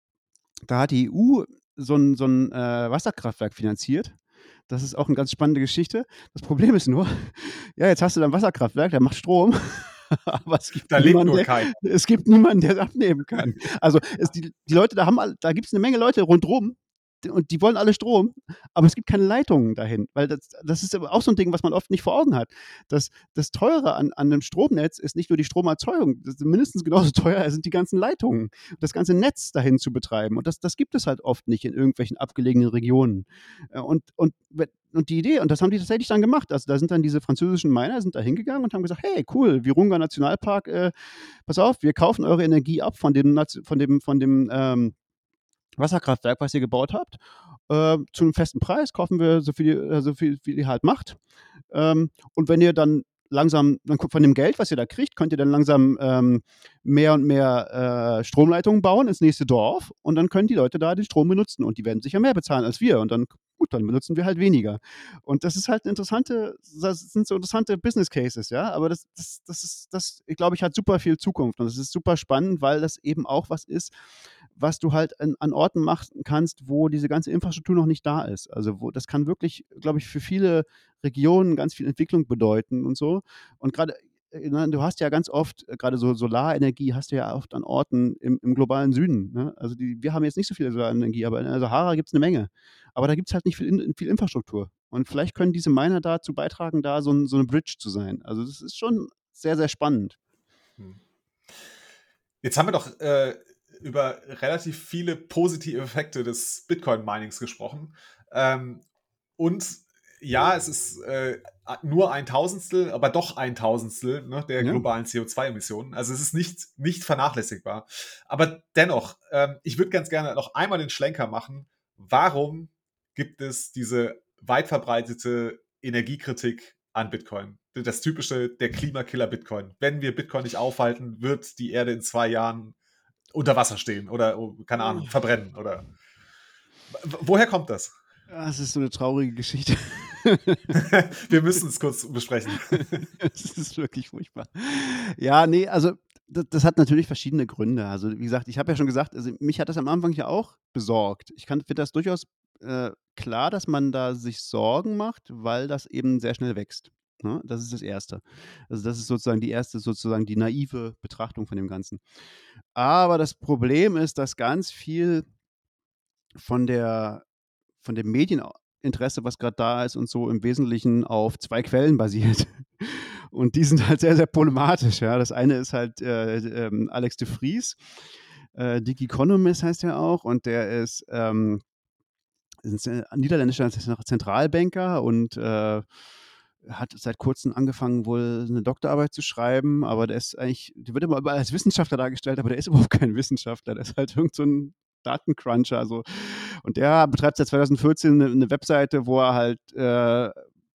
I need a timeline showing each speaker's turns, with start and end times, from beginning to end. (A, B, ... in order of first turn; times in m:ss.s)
0:00.7-0:04.1 A
0:04.7-0:40.9 A
0:10.9-0:11.8 B
0:41.4-0:44.9 A
0:45.8-0:51.2 A
0:51.7-1:13.9 A
1:14.6-1:40.2 A
1:42.4-1:48.8 B
1:49.4-2:12.7 B
2:13.3-2:15.8 B
2:14.8-2:15.1 A
2:16.9-2:17.9 B
2:18.3-2:20.8 A
2:20.7-2:23.1 B
2:22.7-2:42.0 A
2:42.7-2:45.2 A
2:46.4-2:47.2 A
2:47.8-2:57.8 A
2:58.6-3:01.6 A
3:02.6-3:05.8 A
3:06.6-3:20.3 A